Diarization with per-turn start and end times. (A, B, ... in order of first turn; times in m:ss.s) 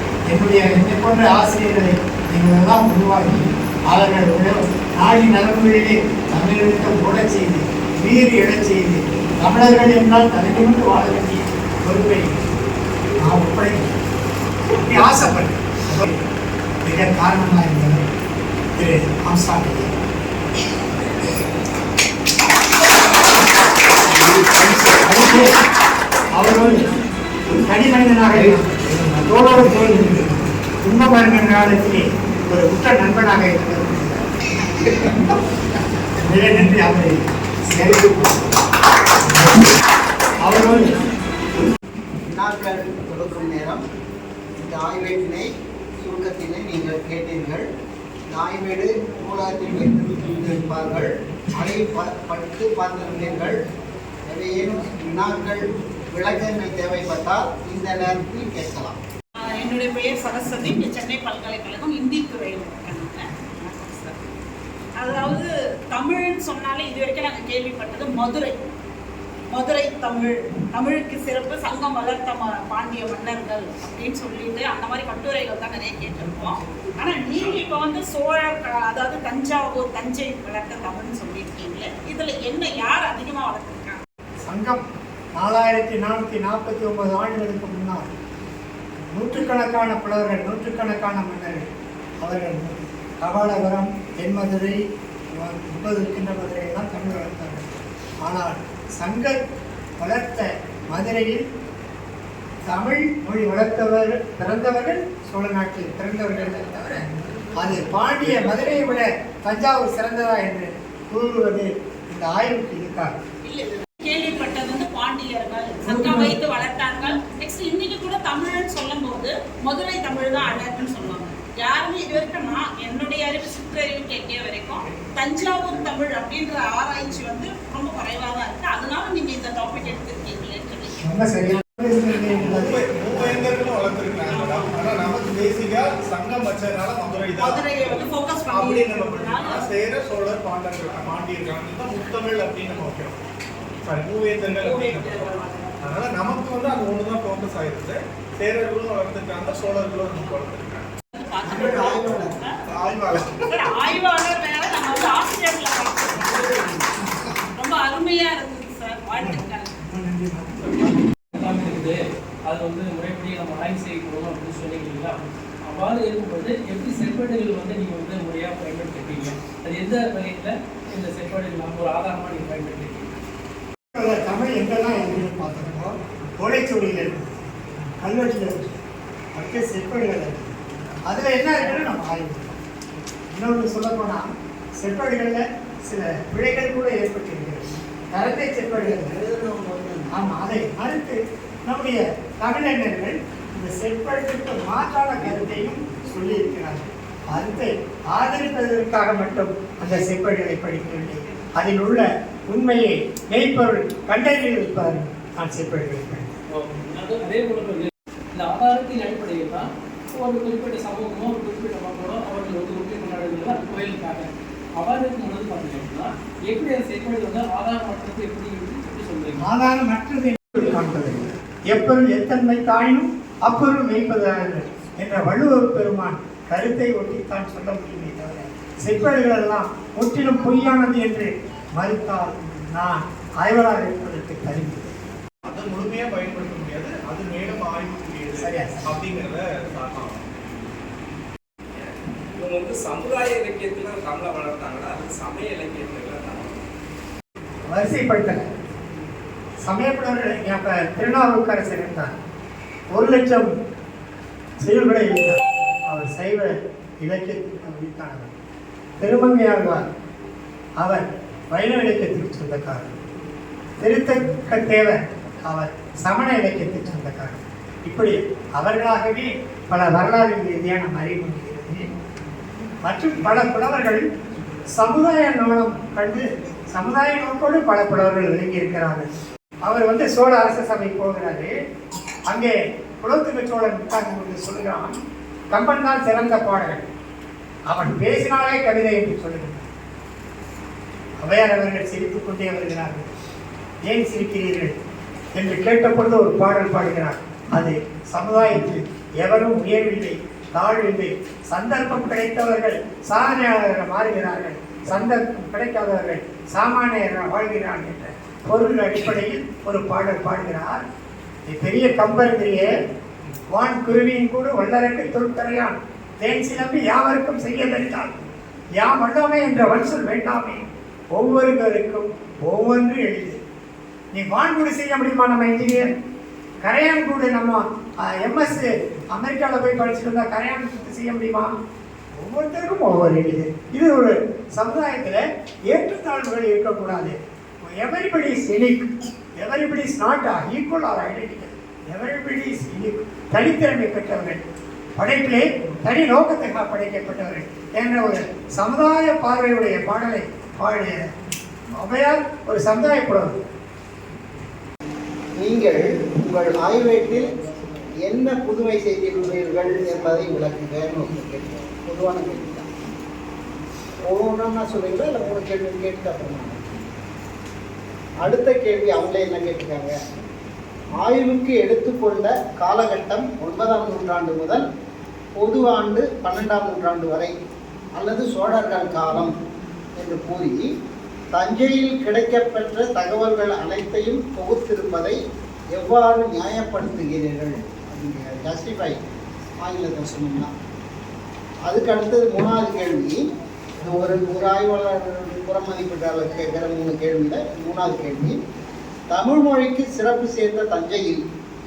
0:00.3-0:12.4 A
0:13.2-0:14.0 A
0:14.7-0:16.2 A
0:16.8-0:18.1 A
0:18.8-0:19.9 A
0:24.1-0:25.5 A
0:26.4-0:26.8 A
0:27.5-0:34.2 A
0:36.2-0:38.6 A
0:39.2-0:39.7 A
0:40.4-0:40.9 A
0:42.3-0:43.8 B
0:44.6-0:45.5 B
0:46.0-0:47.6 B
0:48.3-0:53.5 B
0:54.3-0:59.0 B
0:59.4-1:04.2 C
1:05.0-1:08.6 C
1:09.5-1:24.0 C
1:24.5-1:24.8 A
1:25.4-1:28.1 A
1:29.1-1:31.7 A
1:32.2-1:34.8 A
1:35.4-1:39.4 A
1:40.0-1:41.4 A
1:42.7-1:53.2 A
1:53.4-2:11.0 C
1:55.8-1:56.4 A
2:11.1-2:13.4 A
2:12.4-2:23.2 D
2:14.3-2:14.8 C
2:17.4-2:19.6 C
2:23.8-2:30.9 D
2:24.5-2:25.7 C
2:31.1-2:32.6 C
2:31.5-2:32.3 B
2:32.7-2:33.5 D
2:33.5-2:36.4 C
2:37.5-2:39.7 C
2:39.1-2:41.0 A
2:41.3-2:53.0 E
2:53.9-2:58.8 A
2:59.4-3:00.6 A
3:01.1-3:02.6 A
3:03.3-3:04.2 A
3:04.8-3:09.2 A
3:08.7-3:10.2 B
3:10.1-3:26.3 A
3:26.5-3:39.4 E
3:39.4-3:55.0 A
3:55.4-4:00.2 D
3:58.4-3:59.0 A
4:01.8-4:06.6 F
4:07.7-4:08.5 A
4:09.6-4:12.1 A
4:13.0-4:13.5 A
4:14.6-4:16.5 A
4:17.0-4:18.3 A
4:19.0-4:19.8 A
4:20.8-4:23.0 A
4:23.8-4:31.8 A
4:32.8-4:34.0 A
4:34.8-4:39.1 A
4:39.6-4:41.5 A
4:42.3-4:45.0 A
4:45.5-4:46.9 A
4:47.7-4:49.7 A
4:51.2-4:53.1 A
4:53.9-4:54.7 A
4:55.4-5:10.8 A
5:11.5-5:12.6 A
5:13.5-5:18.1 A
5:18.8-5:23.4 A
5:24.1-5:25.9 A
5:26.6-5:31.5 A
5:32.2-5:38.9 A
5:39.4-5:44.4 A
5:45.0-5:51.0 A
5:51.8-5:53.4 A
5:55.4-5:57.2 B
5:58.1-6:02.7 B
6:04.1-6:06.6 B
6:08.2-6:09.9 B
6:11.0-6:14.6 B
6:15.3-6:17.3 B
6:18.0-6:19.3 B
6:20.0-6:20.6 B
6:21.3-6:25.2 B
6:25.7-6:29.0 B
6:29.6-6:30.5 B
6:31.7-6:33.2 B
6:33.8-6:38.3 B
6:39.1-6:41.2 B